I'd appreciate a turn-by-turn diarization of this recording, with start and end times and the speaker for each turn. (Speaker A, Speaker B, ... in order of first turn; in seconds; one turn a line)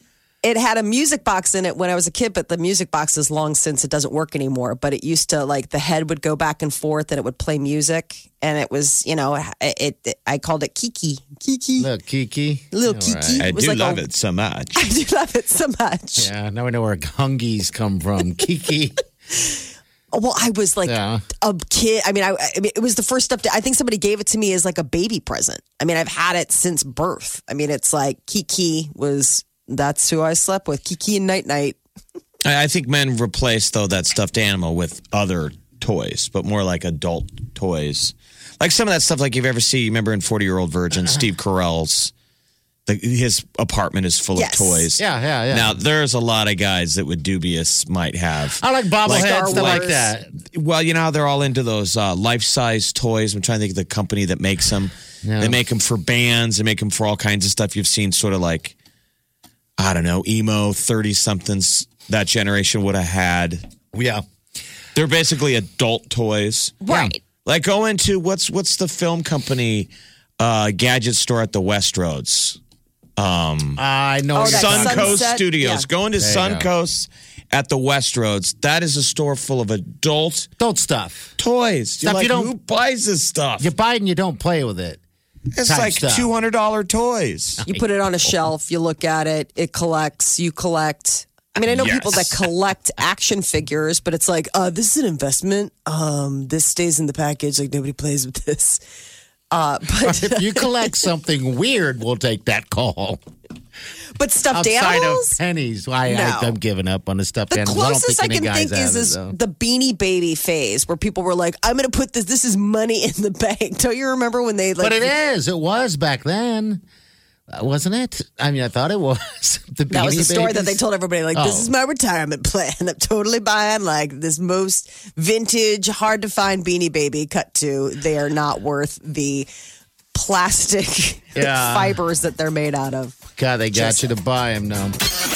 Speaker A: 0.4-11.9
Speaker B: 11.8-13.5
Speaker A: 12.7-14.0
Speaker C: 13.4-14.8
Speaker A: 14.7-16.3
Speaker B: 16.2-19.0
Speaker A: 19.3-31.8
Speaker B: 20.8-21.2
Speaker C: 32.4-42.1
Speaker C: 42.9-58.7
Speaker A: 44.3-44.9
Speaker B: 45.0-45.8
Speaker B: 48.6-50.3
Speaker A: 49.0-50.1
Speaker B: 55.2-55.6
Speaker C: 59.8-63.6
Speaker B: 63.9-64.2
Speaker C: 64.9-66.8
Speaker A: 66.8-67.2
Speaker B: 66.9-67.1
Speaker C: 67.4-72.6
Speaker C: 73.2-73.8
Speaker B: 73.8-75.3
Speaker A: 74.3-75.9
Speaker C: 74.4-80.5
Speaker B: 76.2-76.7
Speaker B: 80.6-81.3
Speaker C: 81.4-83.7
Speaker B: 82.0-82.5
Speaker B: 83.6-85.0
Speaker C: 85.5-87.6
Speaker B: 85.6-86.3
Speaker B: 87.6-88.4
Speaker A: 87.6-98.8
Speaker C: 91.7-92.5
Speaker A: 99.5-100.9
Speaker B: 100.0-103.2
Speaker A: 104.1-105.4
Speaker B: 104.5-109.3
Speaker A: 106.0-106.5
Speaker A: 107.5-115.1
Speaker B: 114.8-116.8
Speaker B: 117.5-120.8
Speaker A: 119.9-129.5
Speaker B: 121.3-121.7
Speaker A: 130.1-133.2
Speaker B: 131.3-132.0
Speaker B: 133.4-134.9
Speaker A: 133.7-134.1